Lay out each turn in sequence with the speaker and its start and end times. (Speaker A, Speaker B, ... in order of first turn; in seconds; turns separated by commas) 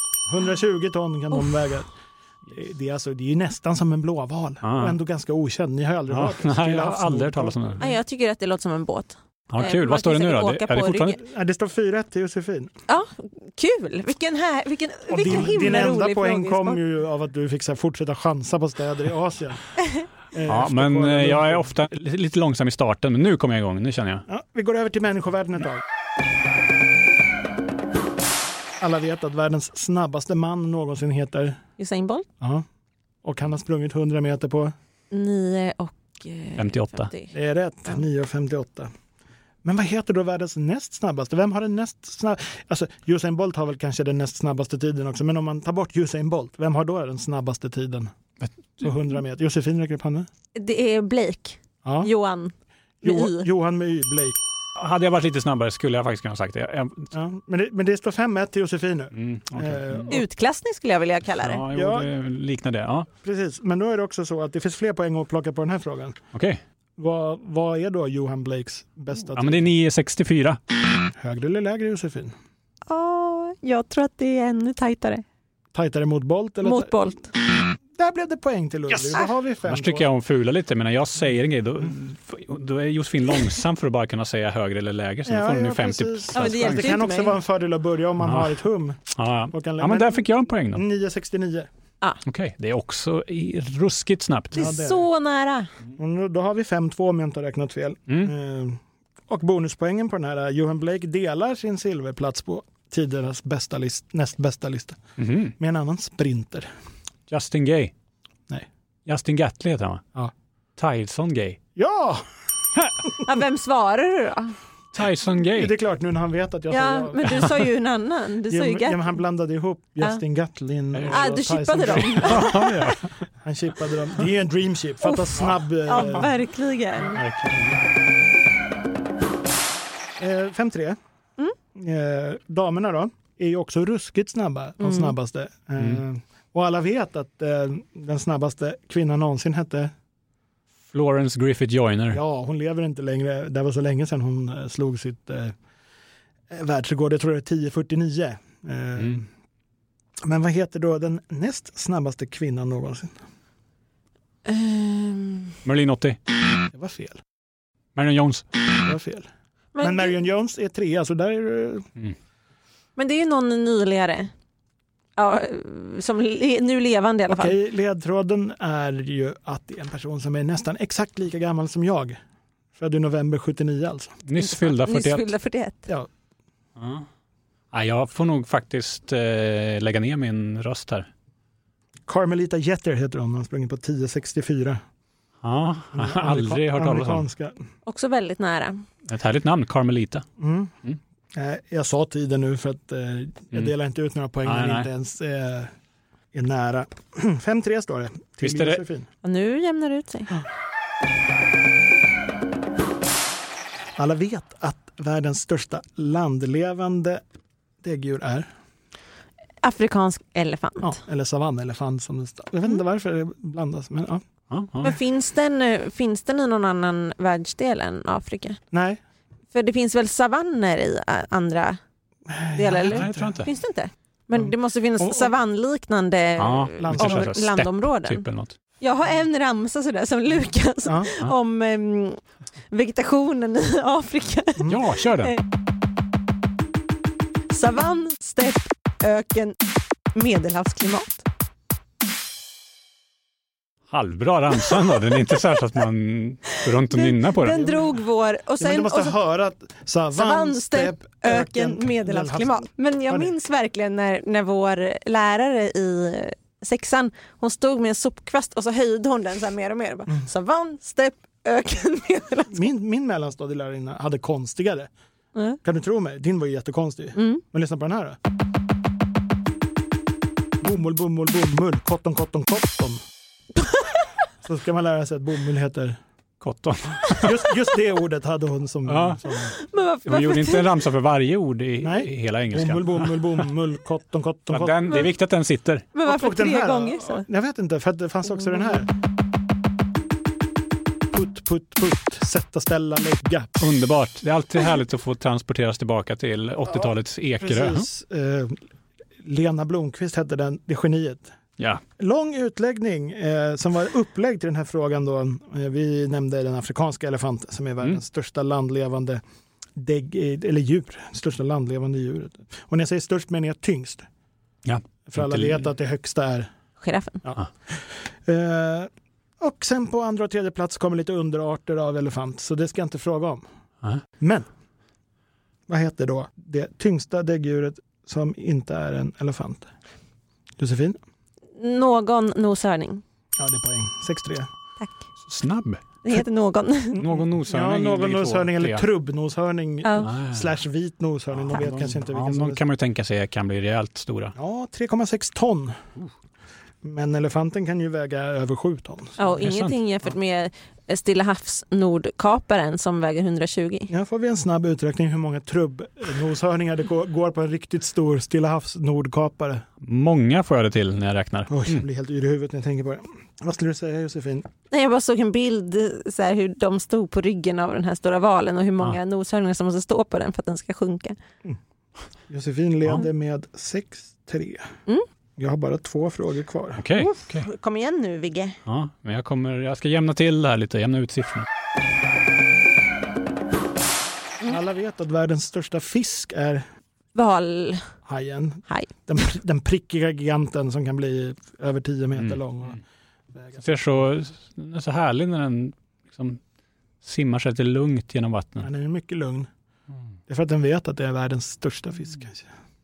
Speaker A: 0.3-1.9, Speaker A: 2.5-7.8, Speaker B: 4.6-5.0, Speaker B: 6.1-7.8, Speaker C: 7.8-11.2, Speaker B: 9.5-11.2, Speaker A: 11.2-12.7, Speaker C: 12.9-16.8, Speaker A: 15.1-19.6, Speaker A: 20.3-21.7, Speaker B: 20.4-24.2, Speaker A: 24.3-25.8, Speaker A: 28.8-31.6, Speaker C: 31.8-32.2, Speaker A: 33.2-34.7, Speaker C: 35.1-37.3, Speaker B: 36.6-37.1, Speaker A: 37.3-38.9, Speaker A: 39.6-48.1, Speaker A: 48.8-50.3, Speaker C: 50.5-53.5, Speaker A: 51.8-52.1, Speaker A: 53.0-54.4, Speaker B: 54.8-57.1, Speaker A: 57.1-60.2, Speaker B: 59.1-60.2, Speaker C: 60.1-61.6, Speaker B: 61.4-63.1, Speaker A: 61.7-62.1, Speaker A: 63.2-66.2, Speaker B: 66.3-66.6, Speaker A: 67.0-69.7, Speaker B: 69.3-70.6, Speaker A: 71.2-72.3, Speaker C: 72.9-75.2, Speaker A: 75.7-76.9, Speaker C: 76.6-77.3, Speaker A: 77.9-80.1, Speaker B: 78.9-87.0, Speaker A: 85.2-89.0, Speaker C: 86.3-87.4, Speaker B: 88.2-88.5, Speaker B: 89.1-90.8, Speaker A: 89.5-91.7, Speaker B: 92.2-94.7, Speaker A: 94.5-95.1, Speaker C: 94.5-95.7, Speaker A: 96.0-105.0, Speaker B: 105.2-105.5, Speaker A: 105.6-106.7, Speaker B: 107.3-107.9, Speaker B: 109.0-110.0, Speaker B: 110.8-111.6, Speaker A: 111.8-112.2, Speaker C: 113.2-114.6, Speaker B: 114.9-115.7, Speaker A: 115.5-117.6, Speaker C: 116.7-119.2, Speaker A: 118.5-122.9, Speaker B: 120.9-121.3, Speaker C: 121.1-122.7, Speaker B: 121.8-123.0, Speaker A: 123.4-126.3, Speaker C: 125.0-127.2, Speaker B: 127.1-127.8, Speaker A: 130.2-131.0, Speaker A: 131.7-139.9, Speaker C: 134.8-135.1, Speaker B: 140.9-142.2, Speaker A: 142.1-145.6, Speaker A: 146.5-149.3, Speaker A: 150.2-153.2, Speaker C: 154.4-155.6, Speaker B: 155.6-156.2, Speaker A: 156.7-157.2, Speaker B: 157.9-158.4, Speaker A: 158.8-159.3, Speaker C: 159.7-160.1, Speaker A: 159.8-161.9, Speaker C: 162.9-164.3, Speaker C: 165.2-167.6, Speaker A: 167.3-172.2, Speaker A: 172.8-174.2, Speaker B: 174.2-175.3, Speaker C: 174.4-175.9, Speaker B: 176.8-177.1, Speaker B: 177.7-181.1, Speaker A: 182.1-184.8, Speaker B: 185.4-187.2, Speaker A: 185.9-187.6, Speaker C: 187.8-188.8, Speaker B: 189.1-190.2, Speaker A: 190.4-190.7, Speaker A: 191.3-195.7, Speaker B: 194.4-194.9, Speaker A: 196.3-199.1, Speaker B: 198.4-198.8, Speaker C: 199.2-200.4, Speaker A: 204.0-207.2, Speaker A: 207.8-208.5, Speaker C: 209.6-211.0, Speaker A: 210.8-214.2, Speaker B: 214.5-215.0, Speaker C: 214.8-218.6, Speaker A: 218.7-219.0, Speaker C: 219.5-221.8, Speaker A: 222.3-223.3, Speaker C: 222.5-228.2, Speaker B: 222.9-223.5, Speaker A: 224.3-225.3, Speaker B: 226.4-228.5, Speaker A: 226.8-227.3, Speaker C: 228.8-235.4, Speaker A: 230.8-231.1, Speaker B: 234.7-235.3, Speaker C: 237.5-239.6, Speaker C: 240.1-241.2, Speaker B: 243.9-247.6, Speaker C: 244.8-245.4, Speaker C: 246.5-249.2, Speaker A: 248.6-253.3, Speaker C: 250.1-262.7, Speaker A: 262.5-264.9, Speaker A: 265.6-268.2, Speaker C: 267.1-267.4, Speaker A: 270.6-273.0, Speaker C: 273.6-274.0, Speaker A: 274.4-276.0, Speaker B: 276.4-277.5, Speaker A: 277.2-279.5, Speaker B: 278.9-279.5, Speaker C: 279.5-280.7, Speaker B: 280.1-283.4, Speaker A: 281.8-285.1, Speaker B: 284.5-285.9, Speaker C: 285.9-287.2, Speaker A: 286.0-288.9, Speaker A: 291.1-293.5, Speaker B: 293.6-297.9, Speaker A: 296.7-298.6, Speaker A: 299.2-301.3, Speaker A: 302.0-309.2, Speaker A: 309.8-314.1, Speaker B: 314.6-315.6, Speaker A: 315.1-316.5, Speaker C: 316.8-317.2, Speaker A: 317.2-323.4, Speaker A: 324.2-324.5, Speaker A: 325.7-329.7, Speaker A: 330.6-331.0, Speaker C: 331.6-333.0, Speaker A: 333.4-334.5, Speaker B: 335.2-335.8, Speaker C: 336.0-337.0, Speaker B: 336.9-338.9, Speaker A: 336.9-342.6, Speaker C: 339.8-340.1, Speaker B: 340.0-340.5, Speaker B: 341.3-344.3, Speaker A: 344.4-345.8, Speaker A: 346.8-349.4, Speaker C: 349.2-353.9, Speaker B: 349.4-349.8, Speaker A: 353.9-359.6, Speaker B: 359.8-361.8, Speaker A: 361.5-364.5, Speaker C: 364.7-371.2, Speaker A: 372.3-374.7, Speaker A: 375.4-376.8, Speaker B: 376.8-377.5, Speaker C: 376.9-378.6, Speaker B: 378.6-381.5, Speaker A: 384.4-386.6, Speaker C: 387.1-387.9, Speaker A: 388.1-392.8, Speaker B: 392.2-392.7, Speaker A: 393.3-393.7, Speaker B: 393.6-396.4, Speaker B: 397.0-398.7, Speaker A: 398.6-399.5, Speaker A: 400.3-402.5